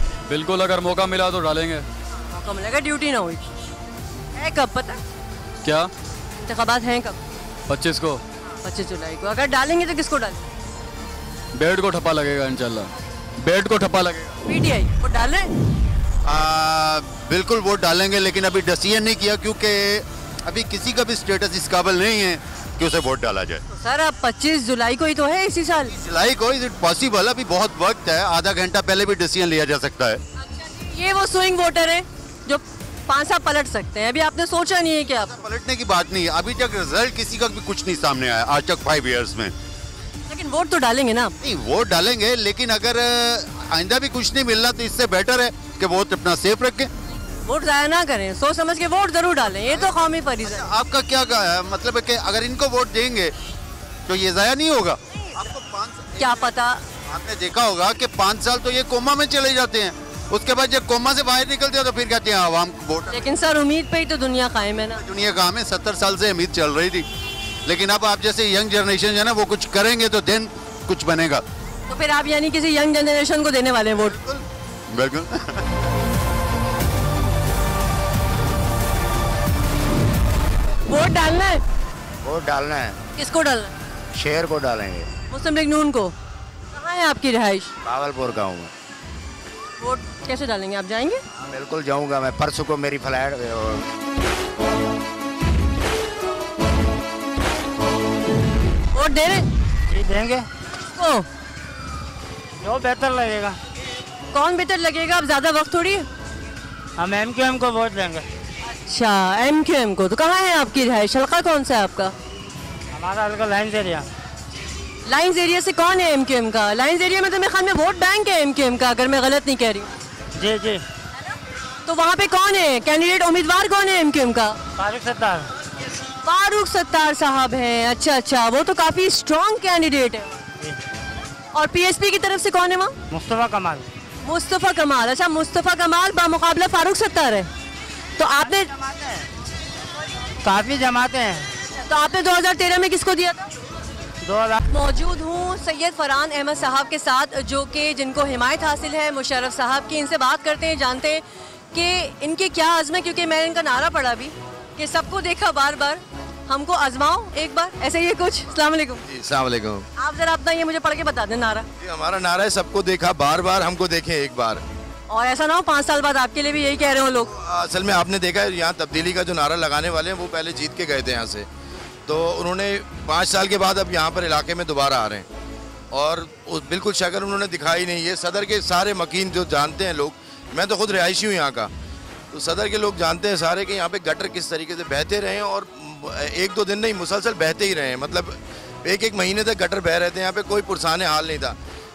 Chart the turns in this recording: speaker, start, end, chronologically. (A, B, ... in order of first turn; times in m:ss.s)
0:00.3-0:01.8 A
0:02.3-0:03.4 B
0:04.4-0:05.0 B
0:05.6-0:05.9 A
0:06.4-0:07.2 B
0:07.7-0:08.2 A
0:08.6-0:10.4 B
0:11.5-0:14.4 A
0:14.4-0:15.5 B
0:16.2-0:23.6 C
0:23.7-0:25.9 B
0:25.9-0:30.2 C
0:30.4-0:35.4 B
0:35.2-0:39.5 C
0:40.3-0:41.3 B
0:41.4-0:46.9 C
0:47.4-0:50.7 B
0:49.6-0:53.3 C
0:54.1-1:03.2 C
0:56.2-0:56.8 B
1:03.1-1:05.0 B
1:04.9-1:07.0 C
1:07.6-1:11.4 C
1:11.9-1:14.2 B
1:14.0-1:15.4 C
1:20.9-1:21.6 B
1:22.2-1:23.0 D
1:23.2-1:23.7 B
1:24.1-1:25.1 D
1:25.3-1:26.1 B
1:26.7-1:27.7 B
1:27.8-1:28.7 D
1:29.8-1:31.2 B
1:31.4-1:33.8 D
1:38.9-1:39.4 B
1:39.9-1:40.4 E
1:40.9-1:41.2 B
1:42.6-1:43.6 E
1:44.3-1:46.0 B
1:47.0-1:48.2 E
1:48.6-1:52.1 B
1:52.9-1:54.0 E
1:55.1-1:59.9 B
2:00.4-2:00.8 E
2:01.8-2:04.6 B
2:04.8-2:05.5 E
2:06.2-2:10.3 B
2:11.5-2:12.9 B
2:13.1-2:13.9 E
2:14.2-2:17.5 B
2:18.2-2:18.7 B
2:20.4-2:21.5 E
2:21.9-2:23.5 B
2:24.2-2:24.6 E
2:24.7-2:31.2 B
2:31.7-2:39.0 B
2:39.1-2:39.8 F
2:40.0-2:41.7 B
2:41.8-2:44.6 F
2:45.1-2:47.3 B
2:47.3-2:51.5 F
2:52.0-2:55.3 F
2:55.9-3:01.7 F
3:02.3-3:11.6 F